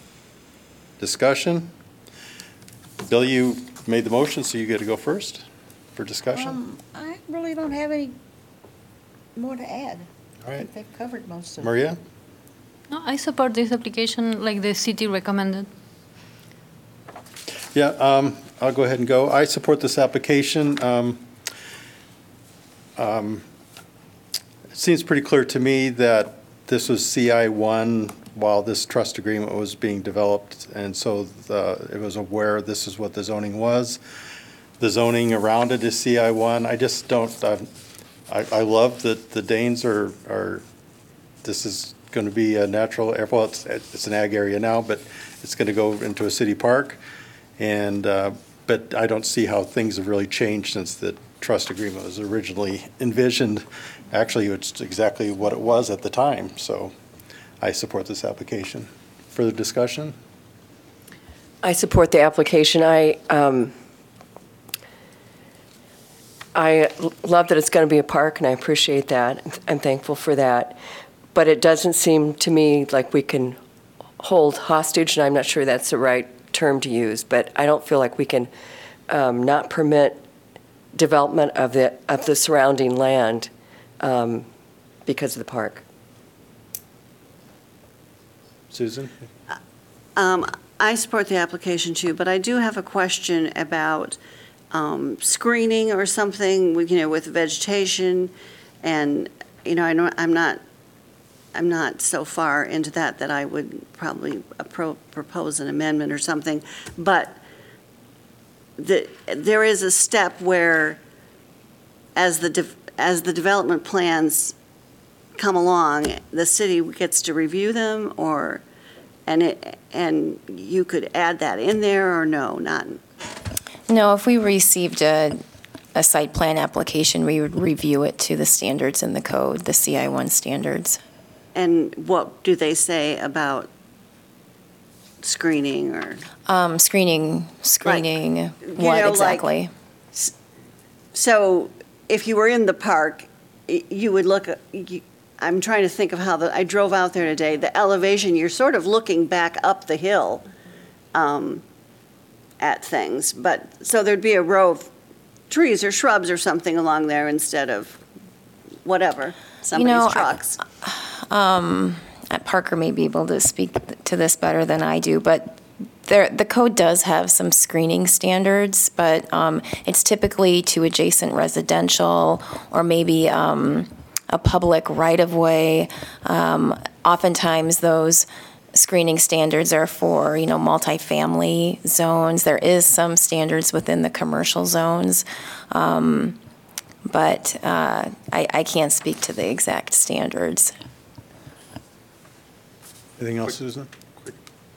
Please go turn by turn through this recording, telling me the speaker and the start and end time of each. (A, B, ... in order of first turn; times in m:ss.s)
0:01.0-0:01.7 A
0:03.1-0:05.4 A
0:06.0-0:06.6 A
0:06.3-0:08.2 B
0:09.4-0:11.7 B
0:11.6-0:12.0 A
0:12.9-0:15.7 C
0:17.7-0:21.2 A
0:23.0-0:23.4 A
0:24.7-0:34.0 A
0:34.8-0:37.7 A
0:38.3-0:40.6 A
0:41.4-0:47.0 A
0:47.6-0:56.9 A
0:57.6-1:00.2 A
1:01.6-1:03.7 D
1:06.5-1:10.8 D
1:11.3-1:13.6 D
1:14.2-1:18.5 D
1:19.1-1:20.2 D
1:20.9-1:23.5 D
1:24.0-1:24.5 D
1:25.0-1:25.8 D
1:28.7-1:29.1 A
1:30.2-1:34.2 E
1:34.7-1:38.3 E
1:38.8-1:40.6 E
1:41.5-1:47.4 E
1:48.8-1:51.0 E
1:52.2-1:54.5 E
1:55.3-1:58.6 E
1:59.2-2:03.0 E
2:03.9-2:05.4 F
2:05.9-2:11.0 F
2:11.5-2:13.7 E
2:15.2-2:16.2 E
2:16.5-2:19.7 F
2:17.8-2:18.1 E
2:18.6-2:19.5 E
2:21.1-2:30.5 E
2:31.1-2:31.6 E
2:32.6-2:34.9 E
2:35.5-2:38.0 E
2:38.8-2:40.6 E
2:39.7-3:06.4 F
3:07.0-3:10.7 F
3:13.2-3:13.9 A